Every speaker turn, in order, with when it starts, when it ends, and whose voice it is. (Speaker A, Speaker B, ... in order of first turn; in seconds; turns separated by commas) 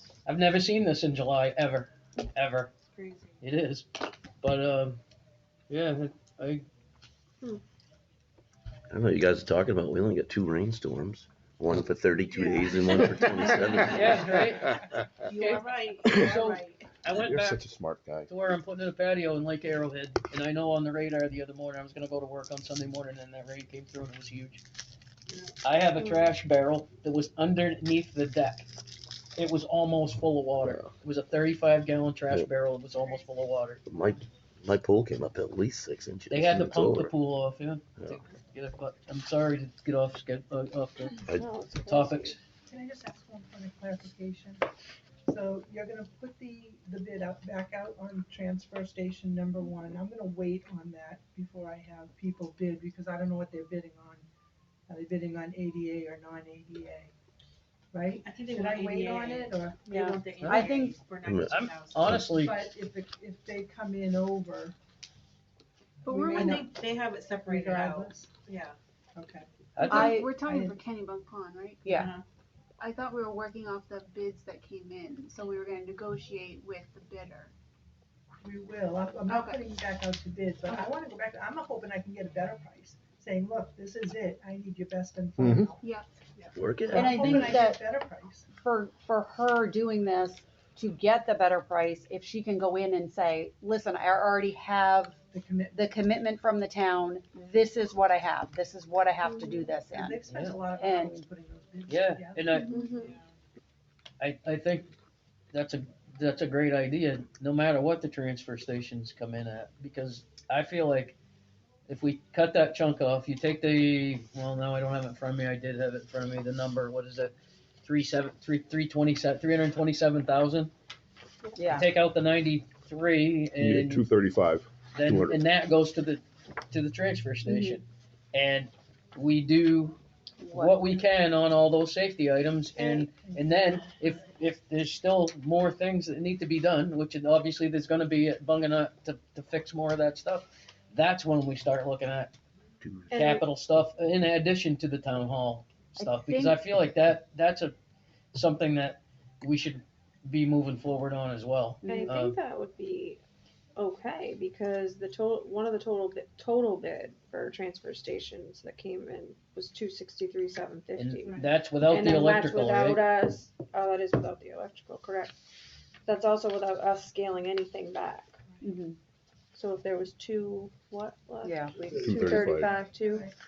Speaker A: 0.2-2.7, Speaker B: 2.9-3.4, Speaker A: 3.4-3.9, Speaker A: 4.4-5.0, Speaker A: 5.7-6.7, Speaker C: 8.9-14.3, Speaker B: 12.3-16.9, Speaker A: 13.8-14.8, Speaker A: 15.3-17.6, Speaker D: 17.2-18.3, Speaker A: 18.3-24.6, Speaker A: 25.6-28.7, Speaker A: 29.4-33.8, Speaker C: 30.6-30.9, Speaker C: 33.9-37.1, Speaker A: 36.3-41.2, Speaker E: 41.3-42.4, Speaker A: 41.9-42.4, Speaker F: 42.7-44.6, Speaker F: 45.3-54.3, Speaker F: 54.9-57.1, Speaker F: 57.9-59.9, Speaker B: 58.2-62.2, Speaker G: 59.9-61.0, Speaker A: 60.4-60.7, Speaker C: 61.2-62.2, Speaker A: 61.5-62.6, Speaker F: 62.2-64.8, Speaker H: 66.0-66.6, Speaker F: 66.1-66.7, Speaker B: 66.3-68.8, Speaker F: 67.4-68.3, Speaker F: 69.2-69.4, Speaker A: 69.8-70.2, Speaker G: 69.8-70.4, Speaker F: 70.0-70.8, Speaker H: 70.1-72.0, Speaker G: 71.8-72.1, Speaker B: 71.9-72.2, Speaker H: 72.8-77.5, Speaker F: 78.4-85.8, Speaker D: 85.4-85.7, Speaker B: 86.4-87.6, Speaker C: 86.5-87.1, Speaker F: 86.9-88.5, Speaker G: 86.9-87.8, Speaker G: 88.5-95.2, Speaker F: 95.3-95.8, Speaker G: 95.7-100.2, Speaker E: 99.2-99.7, Speaker F: 99.8-102.6, Speaker A: 100.3-100.6, Speaker G: 100.8-101.2, Speaker A: 101.9-102.8, Speaker E: 102.7-103.2, Speaker B: 103.0-103.3, Speaker A: 104.2-104.9, Speaker A: 105.5-111.2, Speaker A: 111.9-117.3, Speaker A: 117.8-120.7, Speaker G: 121.6-121.9, Speaker A: 121.7-124.1, Speaker D: 123.6-125.4, Speaker A: 124.9-130.0, Speaker G: 127.5-127.8, Speaker G: 130.4-130.8, Speaker A: 130.5-142.3, Speaker F: 132.8-133.5, Speaker C: 142.8-143.1, Speaker E: 143.1-143.5, Speaker A: 143.1-147.7, Speaker G: 146.0-146.6, Speaker A: 148.3-152.3, Speaker G: 151.8-152.2, Speaker E: 151.8-153.2, Speaker E: 153.8-165.4, Speaker A: 161.0-163.0, Speaker E: 166.1-168.4, Speaker G: 168.6-169.0, Speaker E: 169.5-173.3, Speaker G: 171.4-171.8, Speaker D: 171.9-172.8, Speaker F: 172.2-173.3